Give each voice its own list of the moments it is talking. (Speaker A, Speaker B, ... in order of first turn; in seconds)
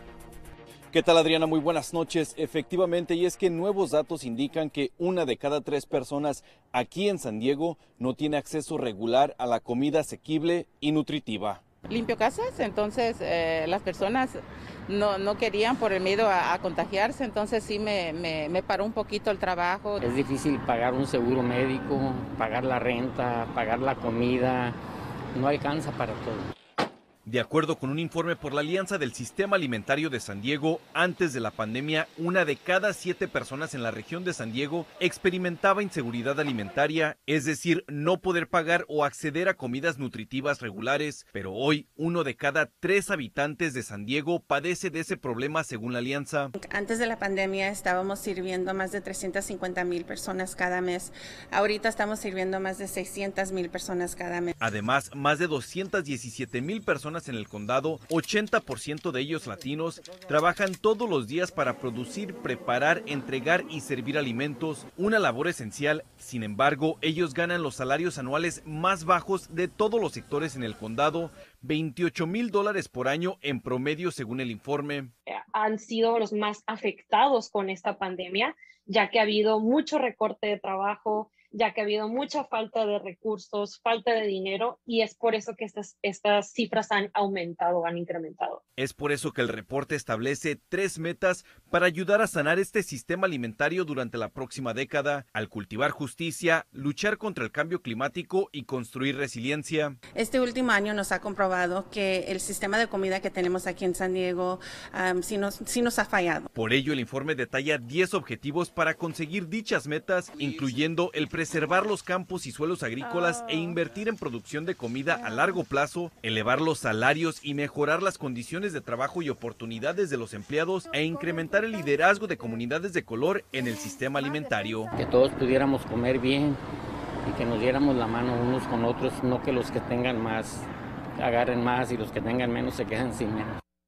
Speaker A: 0.9-11.6, 27.2-46.5, 54.6-75.1, 88.8-100.0, 106.5-124.9
Speaker B: 11.9-20.0
Speaker C: 20.0-24.8, 25.3-26.5, 125.0-126.6, 127.2-130.7, 131.2-133.6
Speaker D: 46.6-54.5, 100.2-106.5
Speaker E: 75.3-88.6